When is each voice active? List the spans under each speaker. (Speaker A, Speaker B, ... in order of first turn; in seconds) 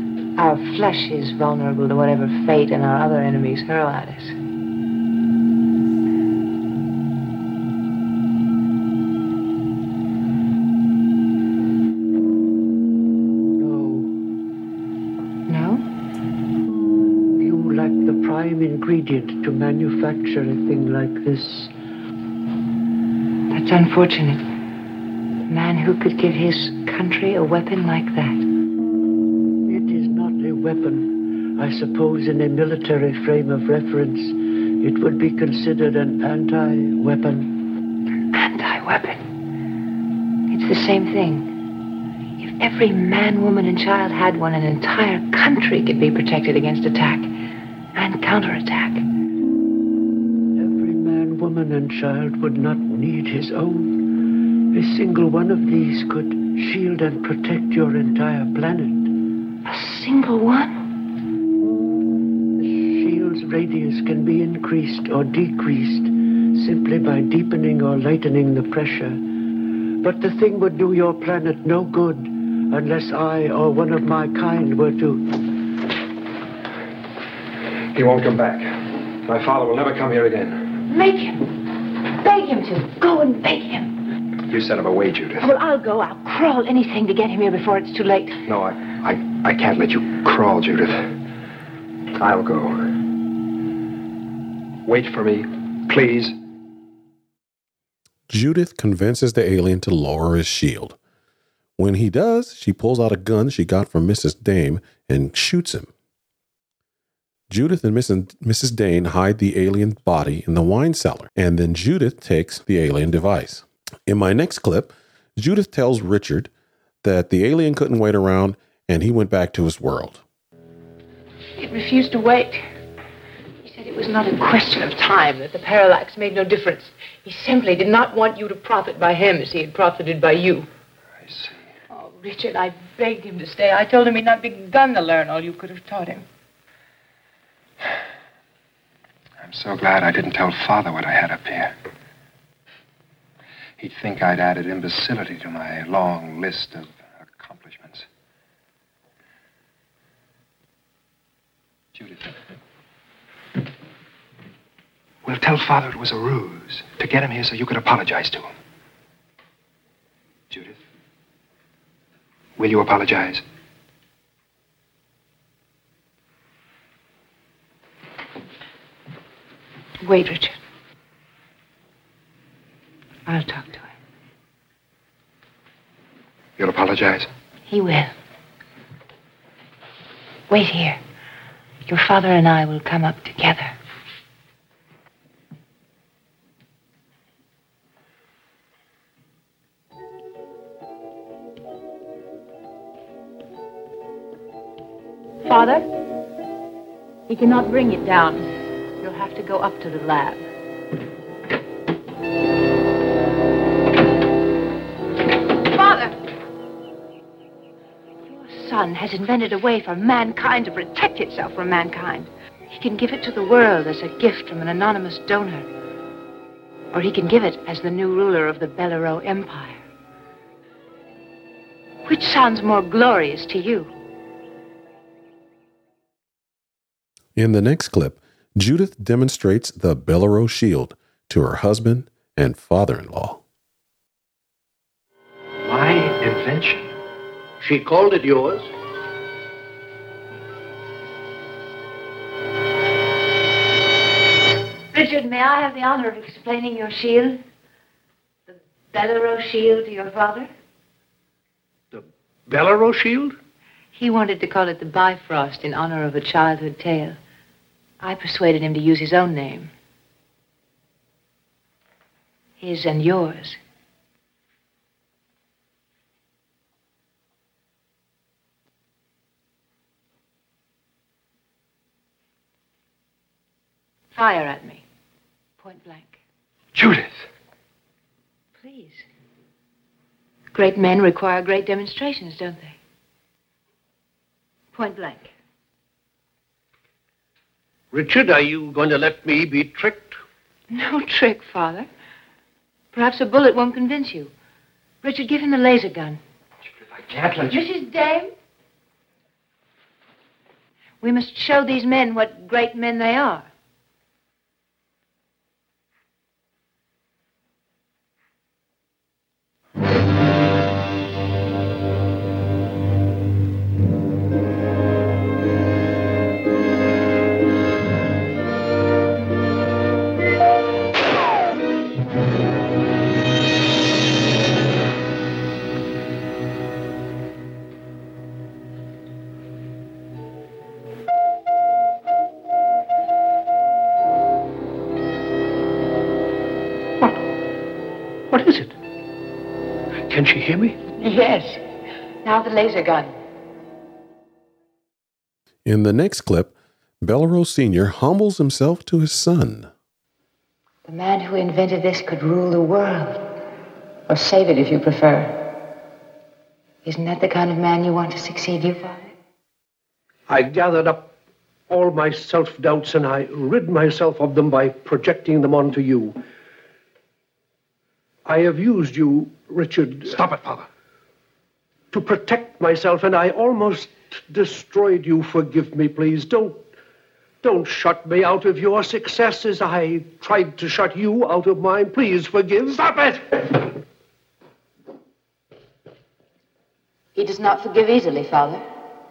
Speaker A: 0.4-4.3, 15.5-15.8, 23.5-24.4, 25.5-28.4, 38.3-39.2, 40.5-41.5, 42.4-47.3, 48.0-49.0, 59.7-60.8, 80.9-81.5, 82.1-83.9, 85.4-88.4, 121.6-122.6, 123.6-130.7, 131.9-136.2, 170.0-170.6, 173.3-173.9, 177.7-178.1, 180.5-181.0, 181.9-183.7, 195.4-195.9, 197.3-198.5, 199.0-200.4, 205.6-206.2, 208.3-215.7, 216.9-219.8, 222.1-223.9, 244.9-247.4, 248.5-250.5, 253.9-257.2, 258.0-259.7, 262.6-263.6, 274.1-274.9, 275.6-276.2, 278.6-279.1, 280.5-282.8, 284.7-285.3, 290.7-291.9, 292.9-294.3, 295.0-296.2, 297.4-298.3, 301.0-303.5, 341.0-341.6, 342.2-343.1, 350.9-353.3, 354.1-355.6, 356.9-359.1, 387.2-388.6
Speaker B: 13.4-14.2, 16.6-21.7, 29.6-37.6, 50.6-54.1, 54.7-59.1, 62.6-69.2, 70.0-75.4
Speaker C: 77.9-80.6, 84.5-85.4, 88.5-91.1, 92.2-92.8, 94.9-96.3, 131.2-131.6, 139.4-141.7, 143.8-148.1, 151.9-152.4, 155.2-158.5, 160.5-160.8, 162.6-163.4, 176.6-177.3, 235.6-236.9, 276.7-277.2, 296.7-297.6, 370.1-370.7
Speaker D: 98.3-101.0, 101.8-105.9, 107.5-116.5, 117.0-120.2, 227.4-233.4, 345.6-349.7
Speaker E: 237.6-238.7, 251.9-253.3, 287.9-290.2, 338.3-338.8, 340.1-340.8, 360.3-361.1, 361.7-366.2, 368.2-370.2, 371.9-376.6, 377.4-382.9